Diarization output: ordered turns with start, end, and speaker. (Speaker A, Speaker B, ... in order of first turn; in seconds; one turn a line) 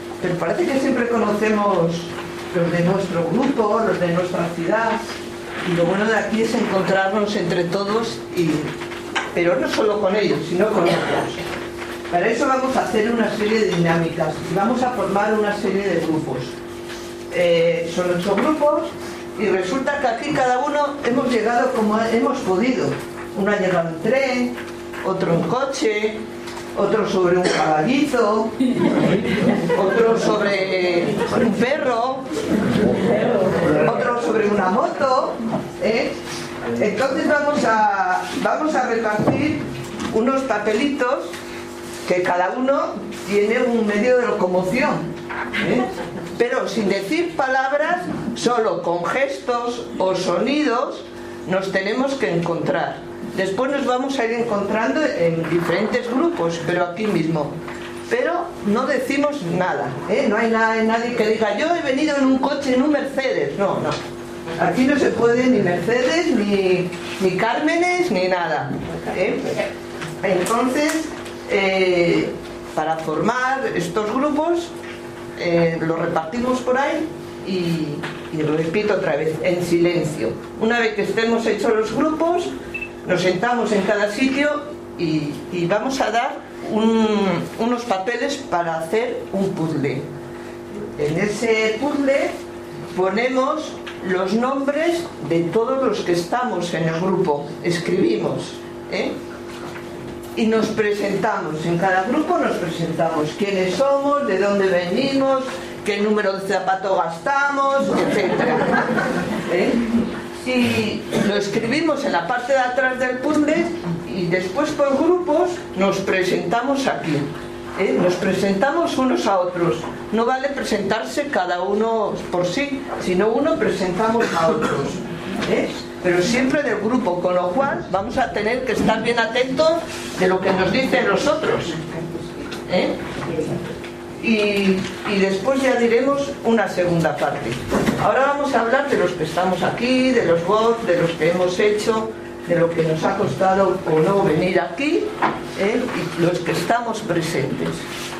Speaker A: 0.2-8.7
Speaker A: 9.3-11.5
Speaker A: 12.1-16.5
Speaker A: 17.3-26.2
Speaker A: 26.7-28.6
Speaker A: 29.5-32.3
Speaker A: 33.5-36.1
Speaker A: 36.7-41.3
Speaker A: 42.0-45.0
Speaker A: 45.6-57.5
Speaker A: 58.1-64.0
Speaker A: 64.6-69.7
Speaker A: 70.2-74.7
Speaker A: 75.3-82.5
Speaker A: 83.0-90.0
Speaker A: 91.0-92.3
Speaker A: 92.9-99.1
Speaker A: 100.3-131.8
Speaker A: 132.6-133.0
Speaker A: 134.2-147.8